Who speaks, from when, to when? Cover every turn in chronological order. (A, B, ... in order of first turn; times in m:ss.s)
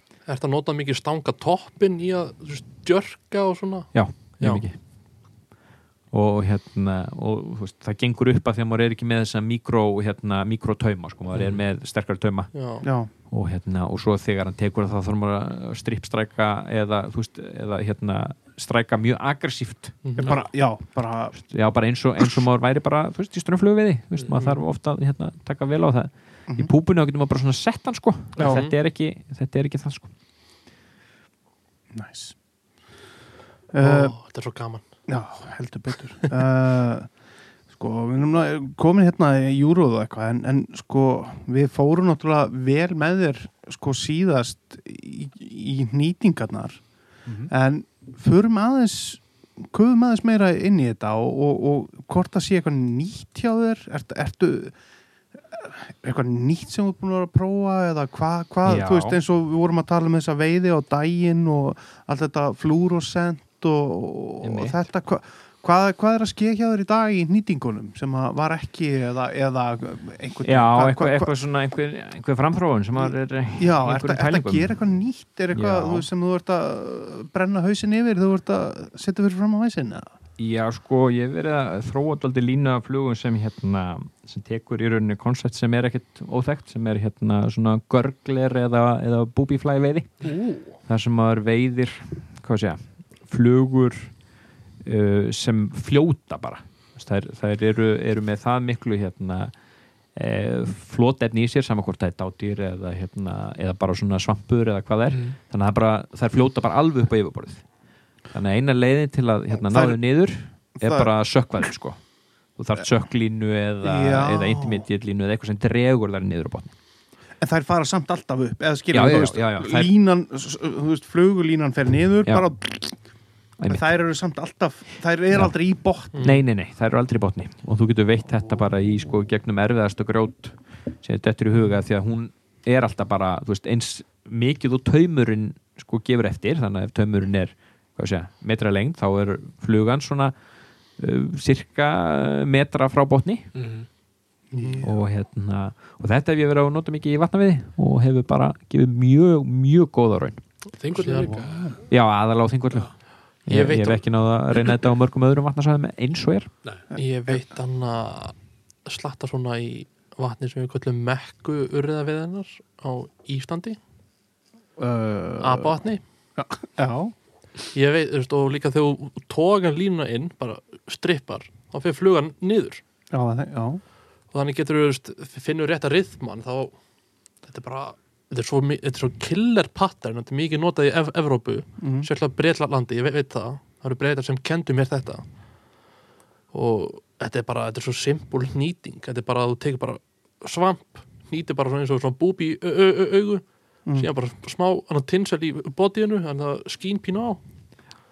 0:00.2-0:04.6 A
0:03.9-0:04.8 B
0:06.1-0:12.5 B
0:12.5-0:12.8 A
0:12.8-0:13.1 C
0:13.1-0:20.3 B
0:20.0-0:20.5 A
0:20.2-0:21.4 C
0:21.4-0:30.1 B
0:28.4-0:28.6 C
0:28.4-0:28.7 A
0:31.9-0:32.3 C
0:33.7-0:34.1 C
0:33.8-0:34.8 A
0:35.1-0:37.1 C
0:37.7-0:46.8 C
0:47.2-0:47.5 B
0:47.5-0:54.8 C
0:55.5-1:11.4 C
0:58.6-0:59.2 B
1:04.4-1:04.8 B
1:10.4-1:14.7 B
1:13.0-1:20.0 C
1:15.5-1:16.1 B
1:20.4-1:34.1 B
1:30.2-1:30.5 D
1:34.8-1:39.5 B
1:40.1-1:47.6 B
1:45.1-1:45.4 D
1:48.3-1:56.7 B
1:49.6-1:50.0 C
1:50.8-1:51.1 C
1:53.8-1:54.8 C
1:57.4-2:03.0 C
1:58.9-1:59.9 B
2:03.6-2:03.8 B
2:03.7-2:06.1 C
2:06.1-2:06.4 A
2:06.2-2:20.3 B
2:21.0-2:23.5 B
2:23.5-2:23.9 D
2:24.5-2:25.0 C
2:24.8-2:30.4 B
2:30.8-2:31.8 D
2:31.0-2:31.4 A
2:31.0-2:31.8 C
2:31.9-2:36.5 B
2:33.4-2:34.0 A
2:36.9-2:37.4 C
2:36.9-2:43.8 A
2:44.8-2:45.7 C
2:45.4-2:46.0 A
2:46.4-2:47.1 C
2:47.7-2:52.8 A
2:53.1-2:53.8 C
2:54.3-2:56.8 A
2:57.4-3:05.3 A
3:01.8-3:02.1 C
3:06.5-3:17.4 A